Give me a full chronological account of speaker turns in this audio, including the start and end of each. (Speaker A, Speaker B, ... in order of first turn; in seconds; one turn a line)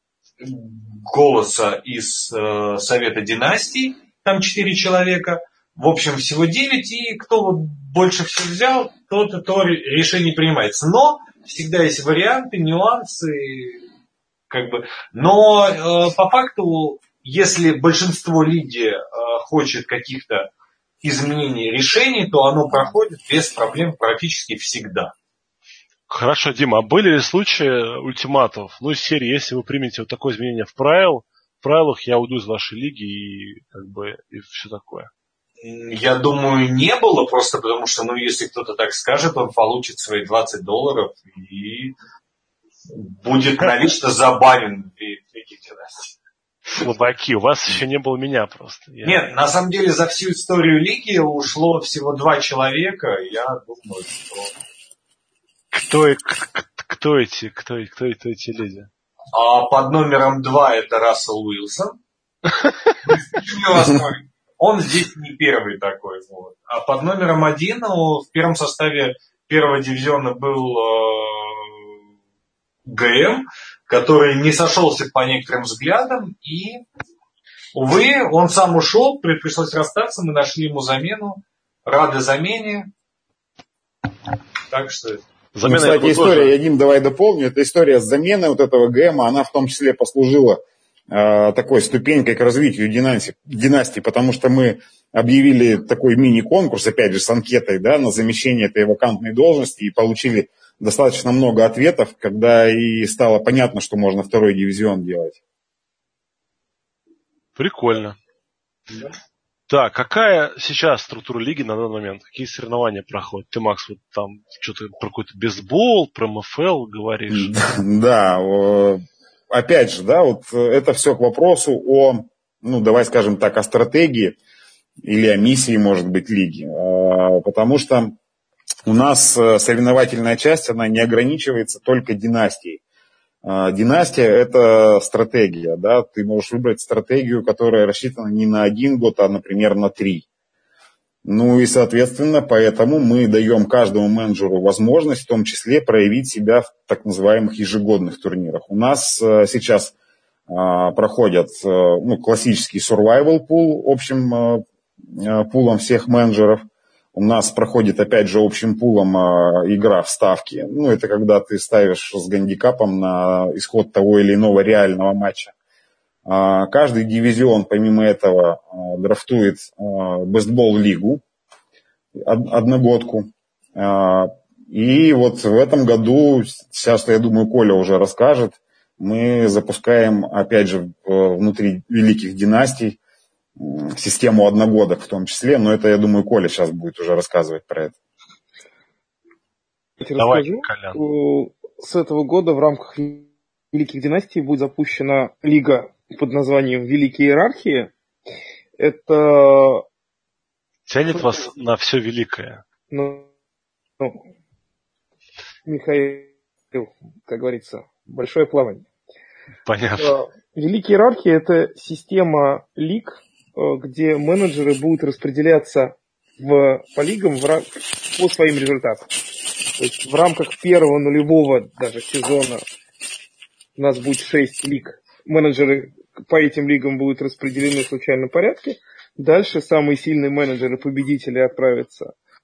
Speaker A: 0.4-13.8
Speaker A: 14.5-20.5
Speaker A: 21.0-25.1
Speaker B: 26.1-35.1
Speaker A: 35.6-41.9
Speaker A: 42.9-46.1
Speaker B: 46.7-49.2
Speaker A: 49.0-54.5
Speaker B: 55.7-58.9
Speaker A: 59.3-62.0
Speaker B: 62.6-62.9
Speaker A: 63.0-71.9
Speaker A: 72.9-76.8
Speaker A: 77.7-82.9
Speaker A: 84.7-85.2
Speaker B: 85.5-86.5
Speaker C: 85.6-105.4
Speaker B: 107.6-108.2
Speaker B: 109.7-117.5
Speaker C: 117.3-124.4
Speaker C: 125.0-128.2
Speaker C: 128.8-132.8
Speaker C: 133.4-140.3
Speaker C: 141.2-149.9
Speaker C: 150.5-165.5
Speaker C: 166.2-171.2
Speaker C: 172.2-183.0
Speaker C: 183.6-187.9
Speaker D: 190.0-197.9
Speaker B: 190.2-191.0
Speaker D: 198.8-199.8
Speaker B: 200.9-202.6
Speaker D: 202.9-203.3
Speaker D: 205.7-208.8
Speaker B: 209.7-210.1
Speaker D: 210.0-219.1
Speaker D: 219.8-222.6
Speaker D: 223.8-232.1